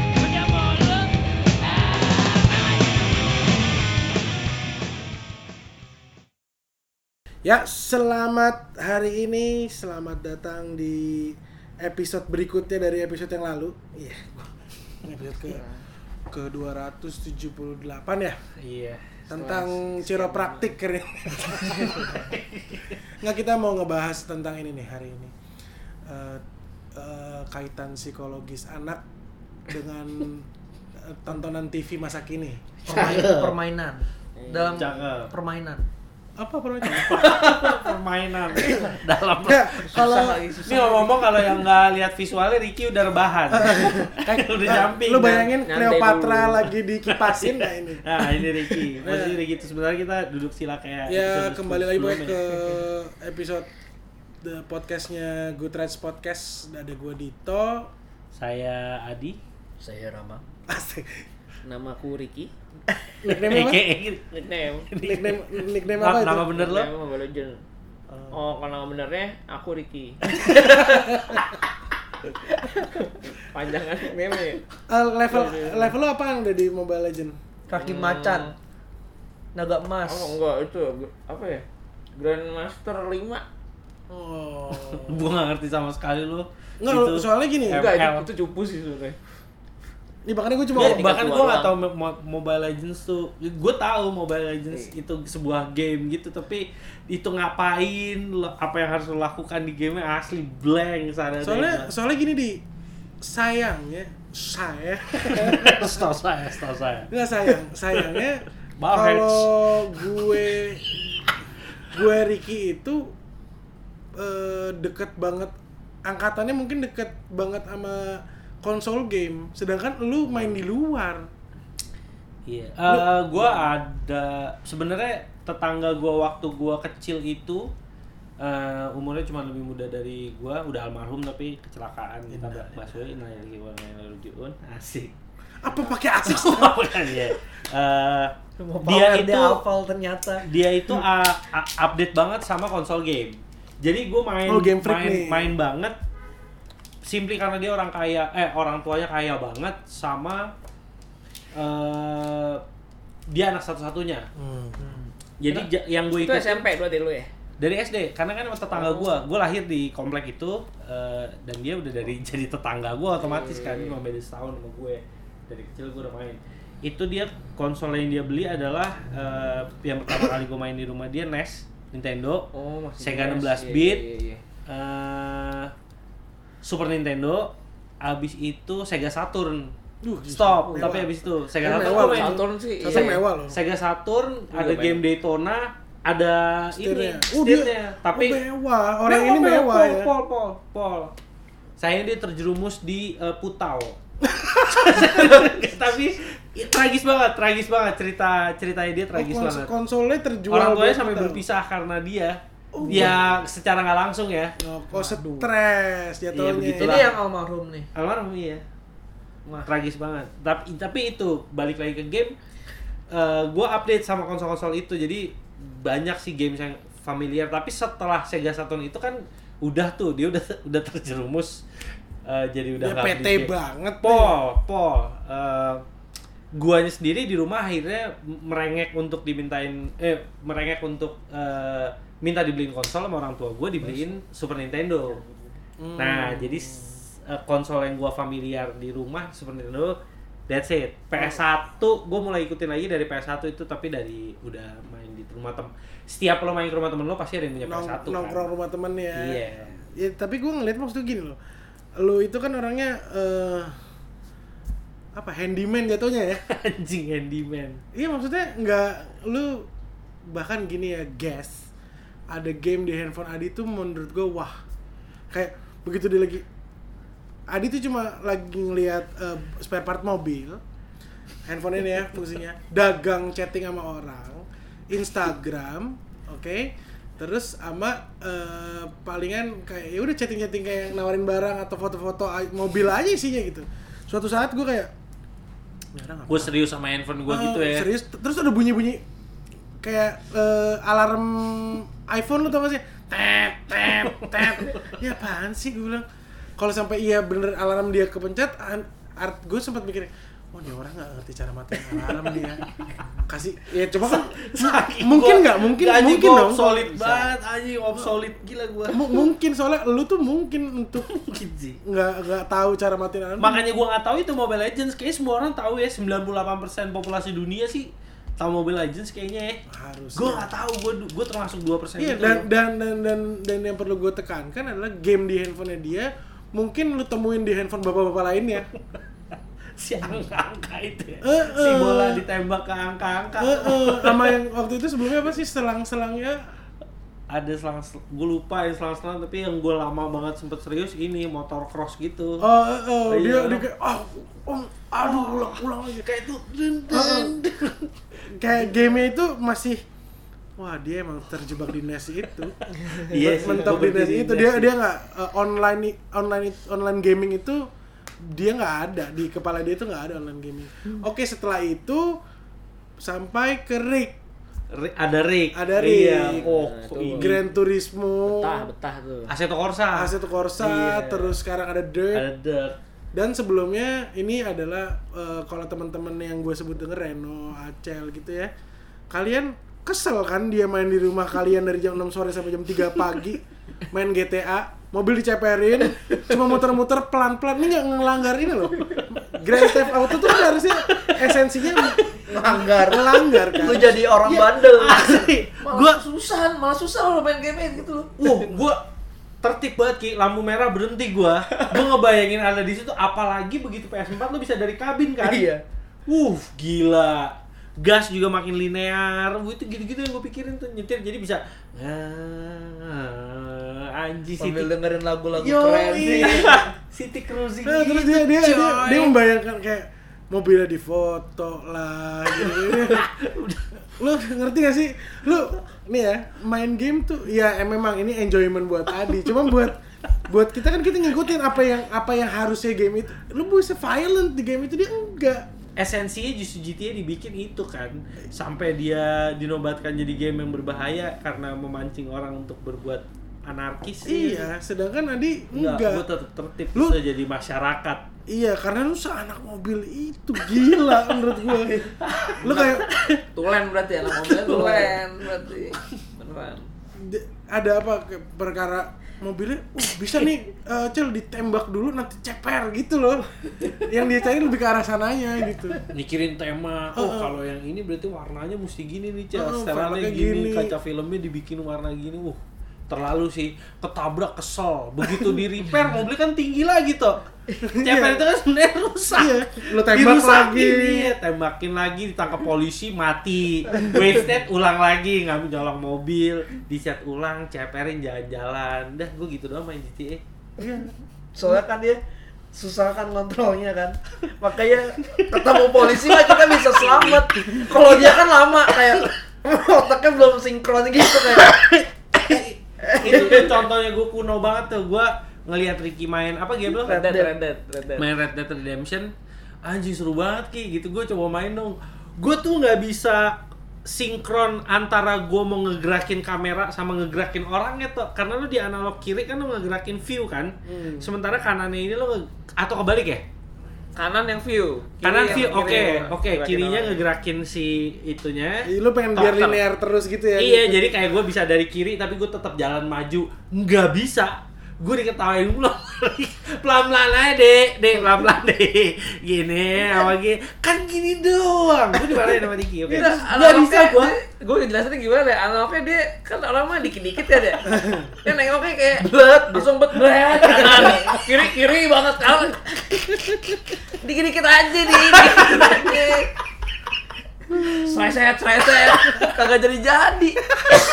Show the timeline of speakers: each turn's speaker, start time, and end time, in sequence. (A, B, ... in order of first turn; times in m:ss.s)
0:00.2-0:02.6 A
0:07.4-0:15.6 B
0:15.4-0:15.8 A
0:16.3-0:18.4 B
0:18.6-0:19.2 C
0:19.3-0:22.3 B
0:19.3-0:20.8 A
0:21.6-0:23.0 C
0:23.1-0:25.3 B
0:26.0-0:29.0 B
0:29.6-0:30.5 B
0:31.0-0:32.7 B
0:32.8-0:35.8 D
0:32.9-0:33.5 C
0:34.4-0:35.0 A
0:34.8-0:35.3 C
0:36.4-0:37.7 B
0:36.9-0:40.0 C
0:38.6-0:38.9 A
0:39.4-0:40.4 B
0:39.9-0:41.5 A
0:40.6-0:45.5 C
0:43.5-0:48.1 B
0:45.6-0:46.7 A
0:47.1-0:52.6 C
0:49.0-0:49.4 B
0:51.1-0:53.7 B
0:54.4-0:57.9 B
0:58.3-0:59.4 C
0:59.8-1:00.4 D
1:00.7-1:01.2 B
1:01.6-1:02.5 A
1:03.2-1:03.8 B
1:03.3-1:06.9 C
1:04.3-1:04.9 A
1:05.0-1:06.5 B
1:06.4-1:07.6 A
1:08.1-1:08.4 B
1:08.3-1:11.4 A
1:10.5-1:11.4 B
1:12.2-1:14.6 A
1:14.9-1:17.4 B
1:15.3-1:15.9 A
1:17.7-1:18.5 D
1:17.7-1:18.5 A
1:19.5-1:20.4 D
1:20.0-1:21.6 A
1:22.2-1:23.4 A
1:24.1-1:25.3 B
1:24.7-1:28.3 C
1:26.8-1:27.9 B
1:27.7-1:29.2 A
1:30.2-1:31.1 B
1:30.7-1:41.9 C
1:30.7-1:31.7 A
1:41.4-1:42.6 B
1:43.2-1:46.1 B
1:45.2-1:47.1 C
1:47.1-1:51.3 B
1:48.8-1:50.1 C
1:51.9-1:53.1 B
1:54.2-1:55.5 B
1:56.0-2:01.3 B
2:00.2-2:00.6 C
2:02.4-2:07.7 C
2:02.9-2:03.7 B
2:08.4-2:15.1 C
2:12.3-2:13.0 B
2:15.6-2:17.3 B
2:15.7-2:19.6 C
2:18.6-2:20.4 D
2:20.4-2:26.0 C
2:24.4-2:25.5 B
2:27.0-2:30.5 C
2:31.5-2:32.6 C
2:33.3-2:34.3 C
2:34.4-2:34.8 B
2:34.8-2:35.1 D
2:35.4-2:36.7 C
2:35.4-2:37.3 A
2:37.6-2:52.5 C
2:38.7-2:39.2 A
2:43.2-2:44.0 A
2:52.5-2:54.4 A
2:53.0-2:54.0 C
2:54.7-2:55.7 C
2:56.6-2:59.7 C
3:00.0-3:03.6 B
3:00.2-3:08.4 C
3:00.6-3:00.9 A
3:01.6-3:03.2 A
3:04.5-3:05.0 A
3:06.7-3:10.1 B
3:09.0-3:11.1 C
3:11.8-3:14.0 C
3:14.2-3:15.6 B
3:14.7-3:19.7 C
3:19.1-3:21.4 B
3:20.5-3:24.5 C
3:22.7-3:23.4 B
3:24.6-3:27.1 B
3:24.9-3:25.4 D
3:26.3-3:27.2 C
3:26.7-3:27.9 D
3:27.9-3:28.6 C
3:29.6-3:32.4 C
3:33.1-3:41.6 C
3:42.2-3:43.5 C
3:42.8-3:44.4 B
3:44.0-3:45.8 C
3:46.5-3:55.2 C
3:55.2-3:55.5 A
3:55.8-3:56.9 B
3:56.0-4:00.0 C
4:00.5-4:08.4 C
4:07.6-4:11.4 B
4:09.1-4:09.8 C
4:12.0-4:13.8 B
4:15.1-4:16.4 B
4:16.4-4:17.8 C
4:17.9-4:19.7 B
4:20.2-4:21.7 B
4:22.3-4:24.6 B
4:25.3-4:26.4 B
4:27.5-4:30.6 B
4:31.4-4:44.9 B
4:45.9-4:46.5 B
4:46.3-4:47.9 C
4:47.3-4:49.0 B
4:49.8-4:56.0 B
4:54.1-4:54.9 C
4:56.6-5:07.3 B
5:01.9-5:02.3 C
5:04.0-5:09.2 C
5:08.9-5:11.1 B
5:11.0-5:11.8 C
5:11.8-5:13.6 B
5:13.4-5:19.6 C
5:19.7-5:20.5 B
5:20.1-5:22.5 C
5:22.0-5:28.7 B
5:29.8-5:34.4 C
5:31.2-5:32.2 B
5:33.4-5:36.5 B
5:37.3-5:42.5 C
5:42.4-5:46.0 B
5:43.0-5:43.6 C
5:45.0-5:47.9 C
5:46.9-5:47.4 B
5:48.3-5:49.8 B
5:50.6-5:52.6 B
5:52.6-5:54.7 C
5:52.8-5:53.9 A
5:53.1-5:57.7 B
5:58.2-6:02.2 B
6:03.0-6:04.2 B
6:04.7-6:07.5 C
6:05.5-6:06.5 B
6:06.2-6:07.4 A
6:07.0-6:08.7 B
6:08.2-6:09.3 A
6:09.3-6:11.4 C
6:09.9-6:12.2 B
6:12.1-6:12.8 C
6:13.1-6:18.5 B
6:19.1-6:34.1 B
6:30.9-6:31.2 C
6:32.3-6:35.1 D
6:34.3-6:36.0 C
6:35.0-6:38.6 A
6:38.2-6:38.8 C
6:39.4-6:45.4 C
6:45.2-6:45.6 D
6:46.1-6:54.7 C
6:54.4-6:56.6 D
6:55.4-6:59.1 C
6:57.6-7:03.1 B
7:02.4-7:03.6 C
7:03.9-7:15.5 B
7:15.8-7:24.5 C
7:24.0-7:26.0 B
7:25.5-7:28.0 C
7:28.3-7:31.8 B
7:32.3-7:32.8 C
7:32.4-7:33.2 B
7:33.3-7:36.7 A
7:34.2-7:35.0 C
7:37.0-7:45.8 B
7:45.9-8:10.2 C
7:46.9-7:47.4 B
7:49.3-7:50.8 B
7:57.6-7:58.2 B
7:59.1-8:01.1 B
8:10.6-8:10.9 B
8:11.3-8:12.0 D
8:12.5-8:21.6 D
8:15.5-8:18.2 C
8:21.2-8:27.0 C
8:22.3-8:23.6 D
8:26.8-8:28.1 A
8:26.8-8:27.3 D
8:28.0-8:43.2 C
8:40.6-8:41.1 B
8:43.9-8:47.0 A
8:45.0-8:49.6 C
8:45.3-8:46.0 B
8:48.6-8:51.0 B
8:50.4-9:04.1 C
9:02.9-9:16.3 A
9:17.5-9:18.0 B
9:17.5-9:20.6 A